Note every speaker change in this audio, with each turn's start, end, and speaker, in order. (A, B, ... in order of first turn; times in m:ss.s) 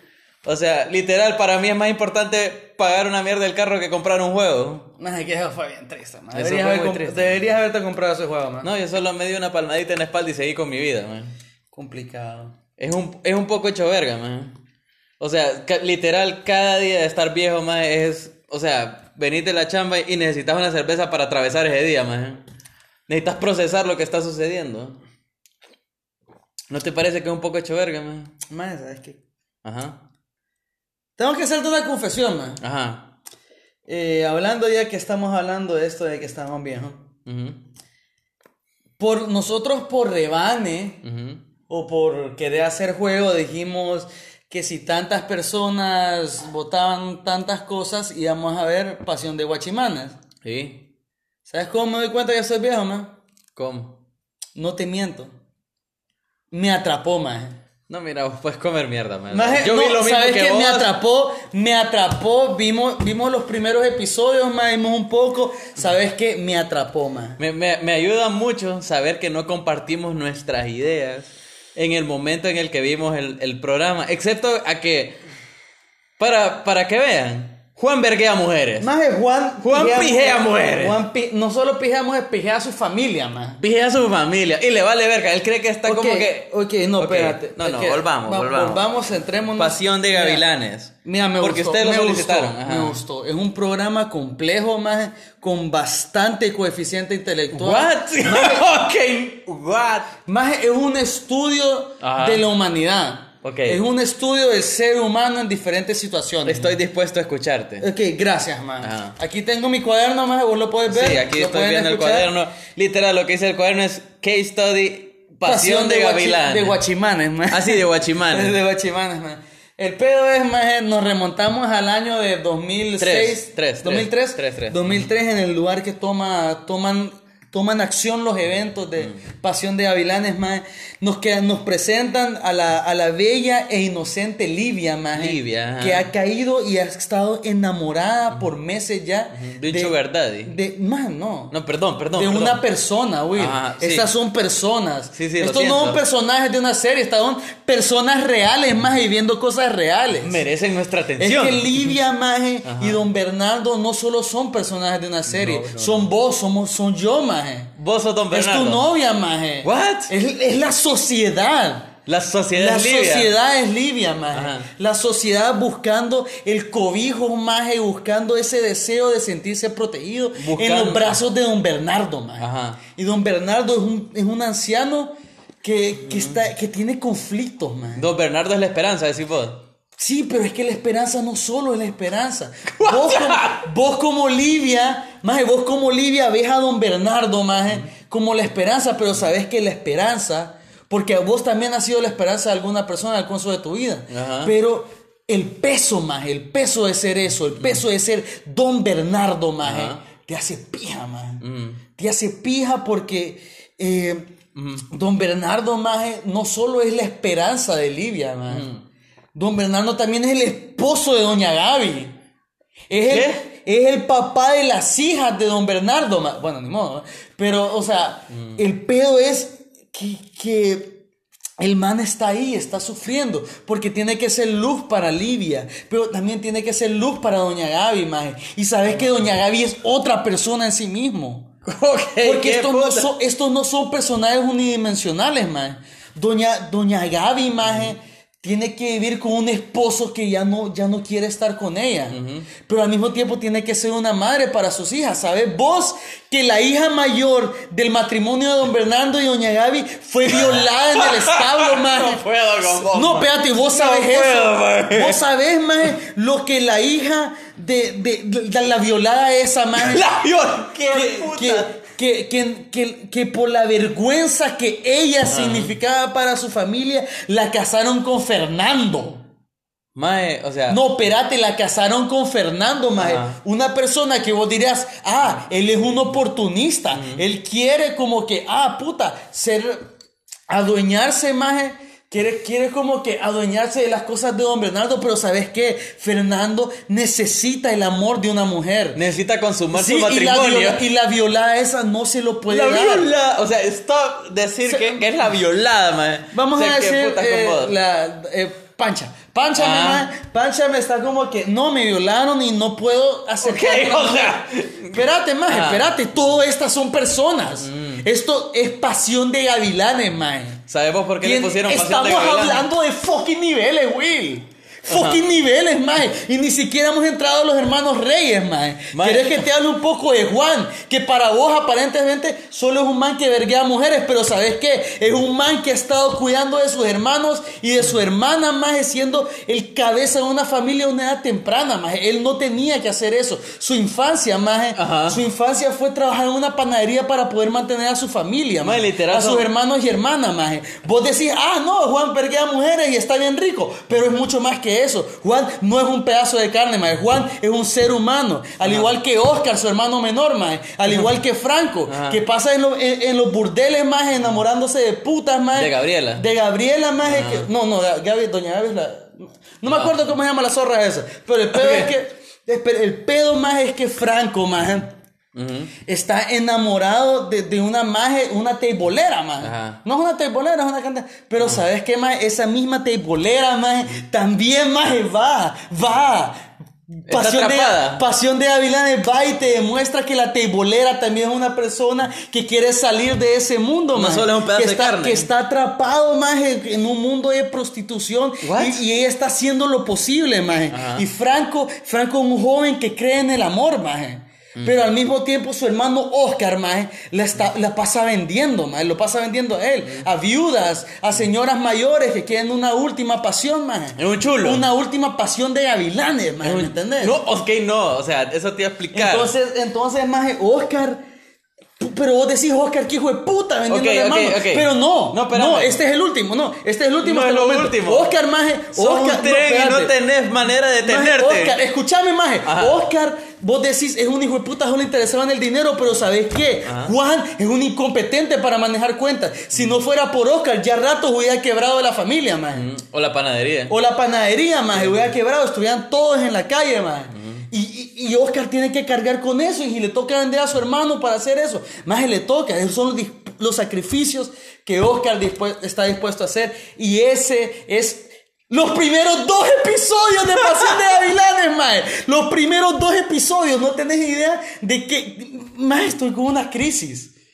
0:00.4-0:04.9 A
0:05.0-0:08.7 B
0:06.3-0:07.4 A
0:08.6-0:11.3 A
0:11.7-0:12.5 B
0:12.8-0:14.6 A
0:15.2-0:22.4 A
0:23.1-0:25.0 A
0:26.7-0:28.3 A
0:28.5-0:29.2 B
0:29.6-0:30.0 A
0:31.2-0:32.6 B
0:32.6-0:33.1 A
0:33.9-0:37.0 B
0:37.2-0:37.6 A
0:39.0-0:41.0 B
0:41.0-0:41.4 A
0:41.7-0:50.2 B
0:50.4-0:50.8 A
0:51.5-0:53.1 B
0:53.6-0:54.0 A
0:54.5-0:55.3 B
0:56.5-0:57.6 B
0:57.9-1:00.9 A
0:59.3-1:07.4 B
1:07.4-1:15.2 A
1:16.2-1:18.9 A
1:18.8-1:23.6 B
1:19.6-1:21.0 A
1:23.6-1:29.0 A
1:25.8-1:30.4 B
1:29.6-1:33.0 A
1:31.0-1:38.6 B
1:37.5-1:40.1 A
1:40.2-1:46.8 B
1:42.0-1:42.4 A
1:43.4-1:43.8 A
1:46.4-1:47.9 A
1:47.8-1:52.3 B
1:48.8-1:49.2 A
1:50.9-1:56.8 A
1:55.4-2:21.5 B
1:57.5-1:58.5 A
2:03.0-2:05.1 A
2:09.0-2:09.2 A
2:15.1-2:16.1 A
2:19.3-2:20.5 A
2:21.5-2:22.6 A
2:22.1-2:30.4 B
2:23.4-2:24.1 A
2:25.1-2:26.0 A
2:30.2-2:32.0 A
2:31.2-2:37.7 B
2:32.6-2:33.0 A
2:35.3-2:36.1 A
2:37.8-2:38.8 A
2:38.3-2:41.9 B
2:39.6-2:40.1 A
2:42.0-2:43.3 A
2:42.5-2:58.0 B
2:44.3-2:44.7 A
2:50.4-2:51.2 A
2:52.4-2:52.8 A
2:56.0-2:56.4 A
2:58.0-2:59.6 A
3:00.0-3:21.4 B
3:02.8-3:03.6 A
3:14.1-3:14.5 A
3:19.6-3:20.0 A
3:21.4-3:21.8 A
3:22.0-3:24.3 B
3:24.5-3:24.9 A
3:24.9-3:28.7 B
3:28.5-3:28.8 A
3:29.3-3:32.1 B
3:32.9-3:41.0 B
3:33.1-3:33.4 A
3:38.3-3:38.6 A
3:41.6-3:51.5 B
3:51.6-3:53.1 A
3:52.2-4:20.1 B
4:02.1-4:02.5 A
4:10.3-4:15.2 A
4:19.8-4:21.8 A
4:20.9-4:29.2 B
4:25.3-4:25.7 A
4:30.0-4:30.8 A
4:30.7-4:39.8 B
4:33.0-4:33.4 A
4:36.9-4:37.2 A
4:40.5-4:49.0 B
4:48.9-4:50.8 A
4:49.7-4:53.1 B
4:52.5-4:57.7 A
4:54.7-4:55.1 B
4:56.3-5:10.6 B
4:59.6-5:00.1 A
5:03.4-5:05.9 A
5:07.6-5:08.0 A
5:10.7-5:12.7 A
5:11.2-6:04.9 B
5:14.9-5:15.2 A
5:18.9-5:19.4 A
5:34.8-5:35.2 A
5:38.6-5:39.4 A
5:48.6-5:48.9 A
5:51.9-5:52.2 A
5:55.5-5:56.2 A
5:57.0-5:57.5 A
5:59.7-6:00.0 A
6:01.5-6:01.9 A
6:05.3-6:05.7 A
6:05.9-6:16.4 B
6:09.4-6:09.8 A
6:17.0-6:47.2 B
6:17.1-6:18.0 A
6:23.9-6:25.3 A
6:28.4-6:28.8 A
6:30.7-6:31.0 A
6:34.6-6:34.9 A
6:44.0-6:44.6 A
6:46.4-6:49.3 A
6:48.9-6:51.0 B
6:51.8-6:59.9 B
6:53.7-6:55.8 A
6:57.0-6:58.1 A
6:58.7-7:01.6 A
7:00.8-7:12.7 B
7:02.4-7:02.8 A
7:06.6-7:06.9 A
7:12.5-7:13.8 A
7:13.7-7:37.1 B
7:14.7-7:15.1 A
7:17.2-7:17.4 A